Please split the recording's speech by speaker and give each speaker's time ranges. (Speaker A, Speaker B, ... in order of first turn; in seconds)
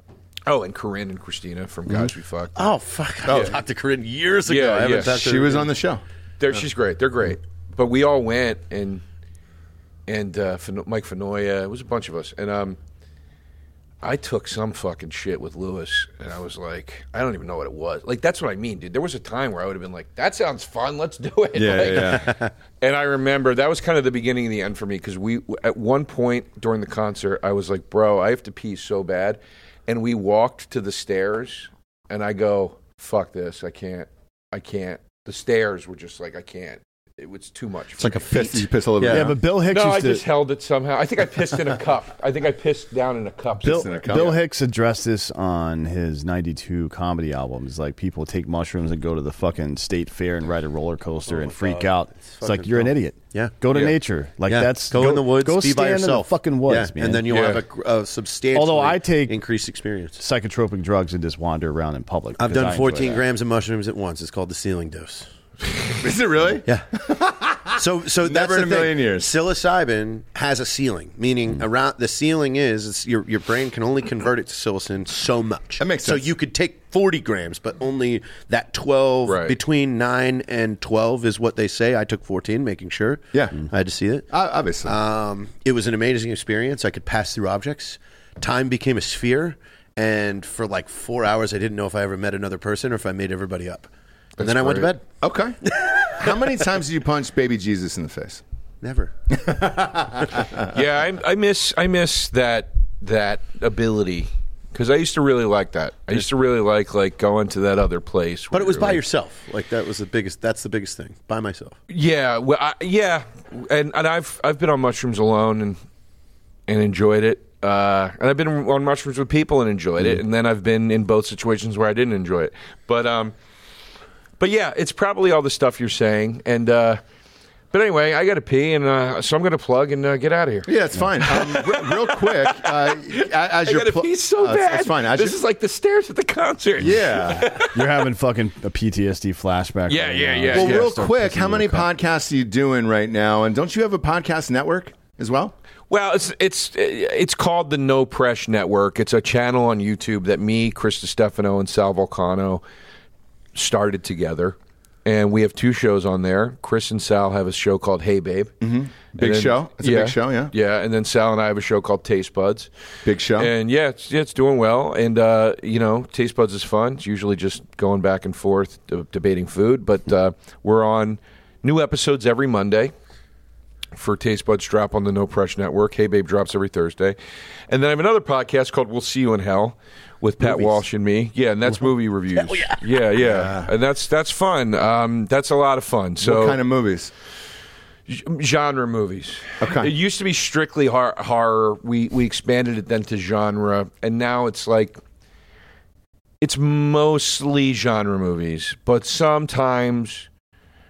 Speaker A: 0.5-2.7, 4.5-5.2, 6.4-9.0, 10.1-12.8, 14.0-38.4, 39.7-44.4, 57.3-57.6, 79.2-79.6, 94.4-94.9, 100.7-109.0, 111.9-115.8, 116.7-123.3, 124.4-127.0, 127.7-130.7, 131.3-137.8, 139.9-140.9, 145.9-152.6, 153.6-158.5, 159.2-162.7, 163.4-172.9, 173.9-177.2, 177.7-186.6, 188.1-195.0, 196.4-200.3
Speaker B: 2.6-5.7, 21.9-22.5, 38.0-39.3, 51.3-53.5, 54.5-60.2, 62.4-65.3, 67.8-84.3, 84.8-95.0, 95.7-96.4, 98.8-100.0, 108.5-111.8, 182.3-182.8
Speaker C: 3.3-3.6, 5.0-6.0, 21.6-22.4, 38.0-39.4, 43.6-44.4, 66.0-69.3, 75.8-76.3, 83.3-83.6, 84.3-85.0, 95.2-98.4, 99.7-100.7, 130.7-135.4, 136.8-137.6, 140.5-145.5, 158.6-160.5, 163.1-163.5, 183.2-183.7, 186.2-187.1, 189.6-189.9
Speaker D: 39.1-40.2, 43.6-57.2, 58.5-59.4, 60.2-63.2, 137.6-141.9